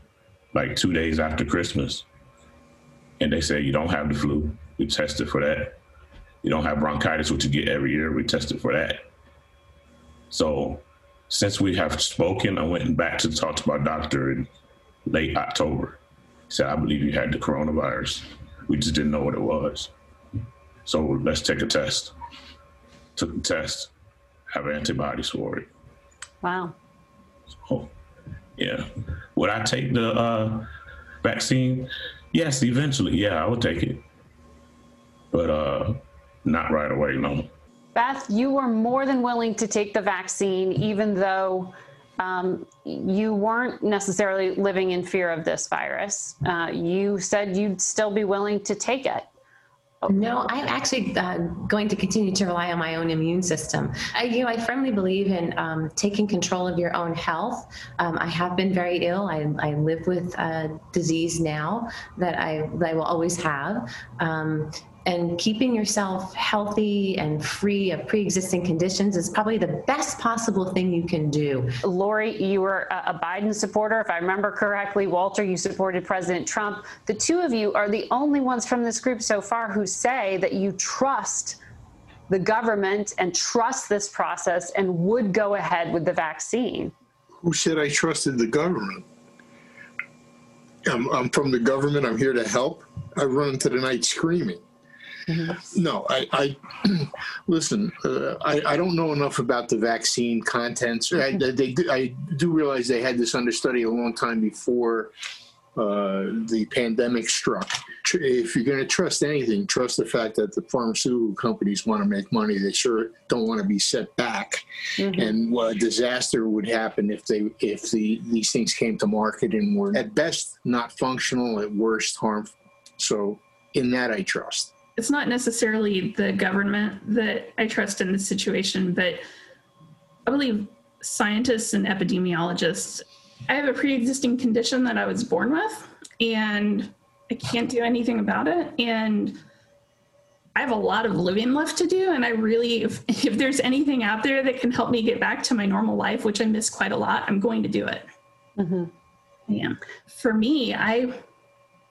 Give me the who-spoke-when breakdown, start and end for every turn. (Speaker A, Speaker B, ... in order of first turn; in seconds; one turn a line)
Speaker A: 0.5-2.0
Speaker A: 3.2-5.8
Speaker A: 6.4-9.0
Speaker A: 10.3-14.5
Speaker A: 15.1-16.0
Speaker A: 16.5-19.9
Speaker A: 20.9-22.1
Speaker A: 23.1-23.9
Speaker A: 24.5-25.7
Speaker B: 26.4-26.7
Speaker A: 27.6-27.9
Speaker A: 28.6-30.6
Speaker A: 31.2-34.0
Speaker A: 35.3-37.5
Speaker B: 37.9-49.3
Speaker C: 50.0-71.7
Speaker B: 71.8-81.6
Speaker B: 82.3-86.9
Speaker D: 87.4-89.0
Speaker D: 90.8-94.6
Speaker D: 95.5-105.1
Speaker D: 105.8-124.7
Speaker E: 125.0-129.2
Speaker E: 130.3-139.4
Speaker E: 140.6-148.1
Speaker B: 148.6-148.9
Speaker E: 149.5-151.2